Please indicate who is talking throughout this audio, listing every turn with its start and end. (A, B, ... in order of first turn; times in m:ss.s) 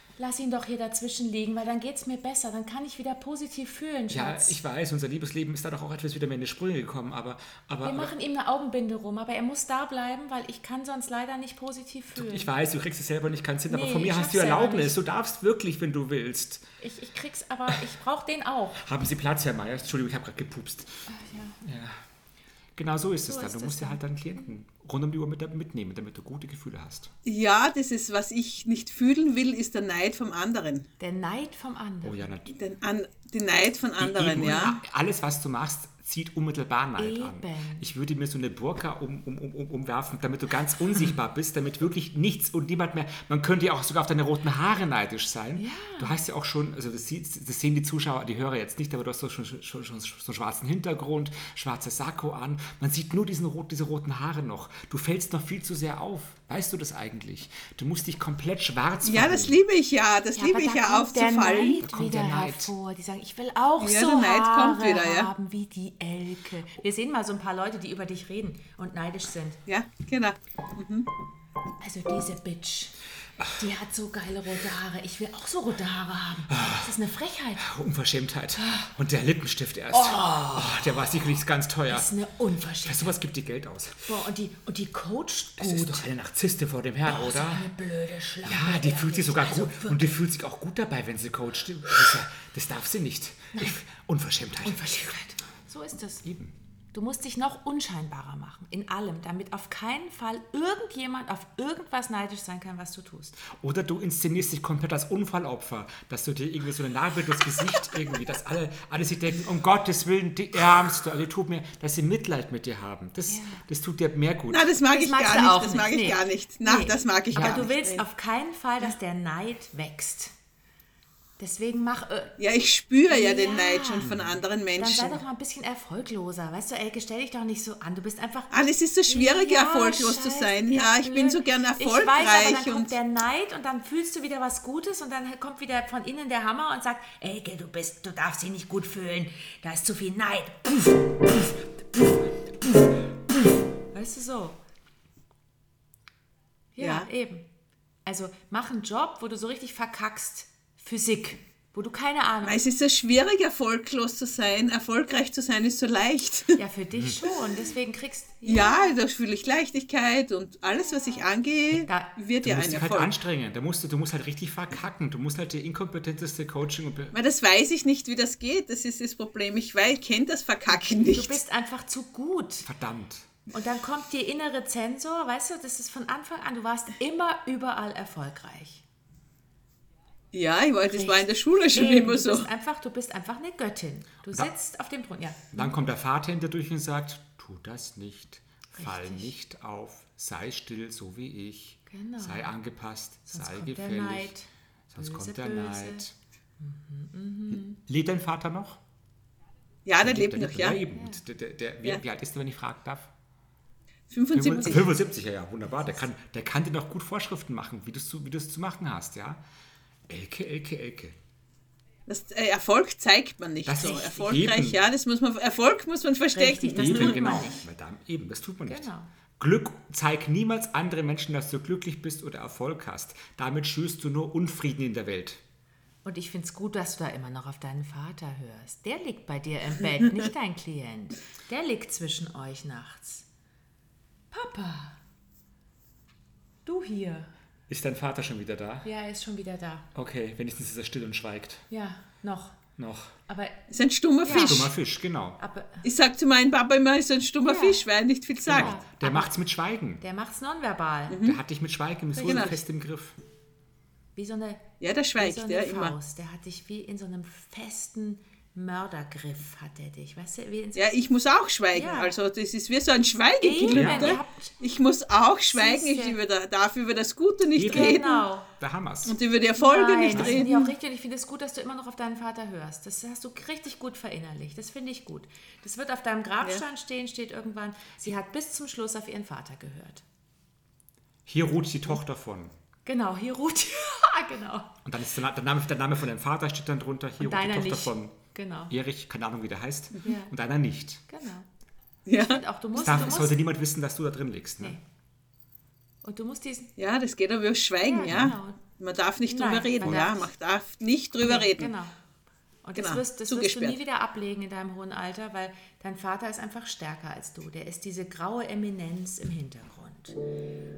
0:00.2-0:04.6 A
0:04.1-0:08.1 B
0:07.8-0:12.5 A
0:12.1-0:16.6 B
0:13.7-0:15.0 A
0:16.8-0:18.8 A
0:18.8-0:20.9 B
0:21.1-0:21.6 A
0:21.6-0:22.0 B
0:22.8-0:27.1 B
0:23.2-0:24.0 A
0:27.2-0:30.9 C
0:31.0-0:32.3 A
0:32.0-0:32.5 B
0:32.5-0:34.8 C
0:34.0-0:59.6 B
0:37.0-0:37.9 A
0:45.6-0:46.2 A
0:59.0-1:01.8 C
1:00.4-1:09.6 A
1:01.8-1:02.7 B
1:03.8-1:05.3 C
1:09.7-1:11.1 C
1:11.8-1:13.0 A
1:13.5-1:17.7 A
1:16.5-1:16.9 B
1:17.6-1:22.1 B
1:18.6-1:18.9 A
1:19.9-1:21.0 A
1:21.9-1:23.1 A
1:22.8-1:24.1 B
1:24.0-1:26.1 A
1:25.6-1:27.7 B
1:27.0-1:30.2 A
1:28.4-1:34.8 B
1:34.6-1:36.3 A
1:36.2-1:36.5 B
1:36.9-1:43.4 A
1:43.4-1:54.7 B
1:53.3-1:53.6 A
1:54.5-1:58.0 C
1:54.9-2:00.3 A
1:57.3-1:57.6 B
2:01.4-2:02.4 A
2:02.4-2:05.2 C
2:03.1-2:04.1 A
2:04.0-2:04.4 B
2:04.8-2:24.6 A
2:08.5-2:12.9 C
2:26.8-2:27.5 A
2:26.8-2:27.1 C
2:28.0-2:32.6 A
2:32.4-2:36.6 C
2:36.6-2:38.9 A
2:38.4-2:43.1 C
2:41.7-2:42.1 A
2:42.4-2:47.1 B
2:47.1-2:51.4 C
2:50.9-2:52.7 A
2:52.6-2:53.3 B
2:53.5-2:58.8 A
3:00.3-3:02.5 C
3:00.9-3:05.7 A
3:05.5-3:14.3 B
3:08.7-3:09.3 A
3:11.9-3:12.5 A
3:13.3-3:16.0 A
3:14.9-3:16.1 B
3:16.6-3:17.8 A
3:17.5-3:18.8 B
3:19.8-3:20.8 C
3:20.0-3:23.1 B
3:20.9-3:21.2 A
3:24.1-3:24.9 C
3:24.3-3:29.4 B
3:30.1-3:31.2 B
3:32.1-3:37.5 C
3:33.6-3:34.8 B
3:36.3-3:37.6 A
3:36.7-3:45.4 B
3:38.7-3:39.1 A
3:46.0-3:53.3 A
3:54.3-3:55.0 A
3:56.6-3:57.3 A
3:57.7-3:58.9 B
3:58.8-3:59.9 A
3:59.9-4:01.6 B
4:01.7-4:02.6 A
4:02.8-4:03.1 B
4:03.3-4:03.6 A
4:03.7-4:04.7 C
4:04.2-4:04.7 A
4:04.3-4:05.4 B
4:05.4-4:05.8 A
4:05.8-4:08.8 C
4:07.4-4:07.8 A
4:08.4-4:10.0 B
4:08.5-4:09.3 A
4:10.0-4:11.2 A
4:11.1-4:11.4 C
4:11.2-4:13.2 B
4:12.1-4:12.6 A
4:12.2-4:12.5 C
4:14.2-4:20.9 A
4:14.8-4:16.0 C
4:20.7-4:28.2 C
4:21.7-4:22.2 A
4:23.4-4:24.5 A
4:23.7-4:24.2 B
4:25.5-4:26.2 A
4:27.5-4:28.0 B
4:27.7-4:28.5 A
4:28.6-4:29.1 B
4:29.0-4:30.7 C
4:29.6-4:40.0 A
4:30.1-4:30.5 B
4:41.2-4:42.5 B
4:42.8-4:44.8 A
4:44.8-4:48.2 B
4:47.2-4:48.7 A
4:48.7-4:51.0 B
4:50.0-4:50.3 A
4:51.1-4:51.5 A
4:52.0-4:52.4 C
4:52.1-4:53.4 A
4:52.8-4:54.8 B
4:56.0-4:56.7 A
4:56.8-5:01.7 C
4:57.8-4:58.6 A
4:58.0-4:58.4 B
4:59.3-5:00.3 A
5:01.2-5:01.9 A
5:02.6-5:10.2 A
5:02.8-5:03.8 C